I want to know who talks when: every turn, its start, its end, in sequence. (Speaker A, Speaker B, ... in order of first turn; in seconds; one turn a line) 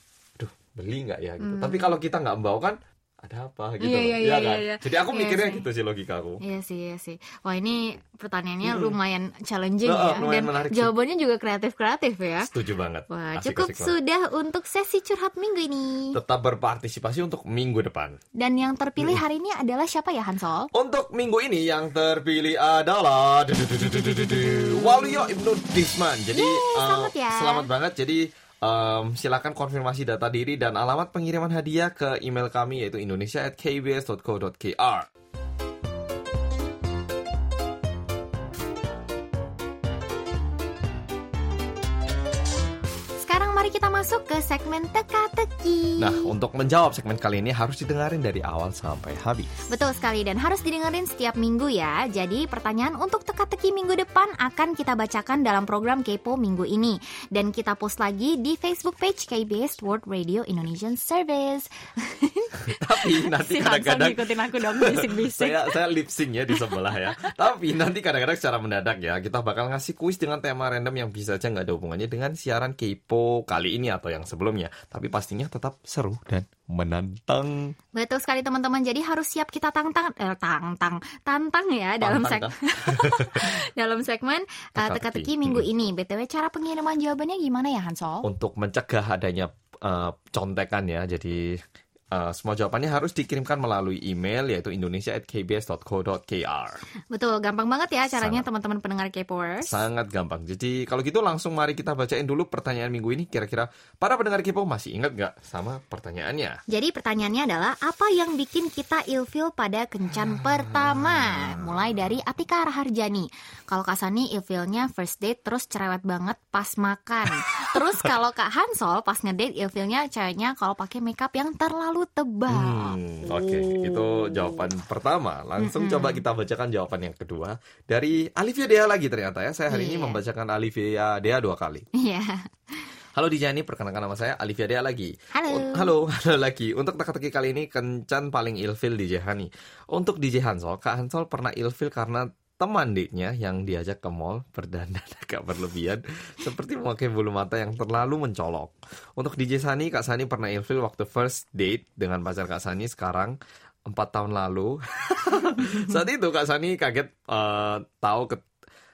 Speaker A: 0.4-6.4
Speaker B: 1.4-1.9
Speaker B: 3.8-5.6
Speaker B: 6.4-12.5
Speaker A: 8.6-8.9
Speaker A: 9.8-10.9
Speaker A: 12.4-13.9
Speaker B: 13.1-16.2
Speaker A: 16.1-18.2
Speaker B: 18.4-20.7
Speaker A: 20.7-35.1
Speaker B: 24.3-25.0
Speaker B: 26.3-27.7
Speaker B: 43.2-46.3
Speaker A: 46.0-49.5
Speaker B: 49.7-65.7
Speaker A: 62.7-77.7
Speaker B: 66.5-67.3
Speaker B: 77.9-88.2
Speaker A: 82.0-83.5
Speaker A: 84.8-85.7
Speaker A: 88.2-91.6
Speaker A: 92.1-96.8
Speaker B: 97.1-99.8
Speaker A: 98.1-98.4
Speaker A: 99.6-106.6
Speaker B: 106.7-124.5
Speaker A: 110.1-111.8
Speaker A: 117.7-118.1
Speaker A: 122.5-131.8
Speaker B: 125.6-126.2
Speaker B: 129.7-130.2
Speaker B: 131.9-132.9
Speaker A: 133.1-158.4
Speaker B: 135.3-135.9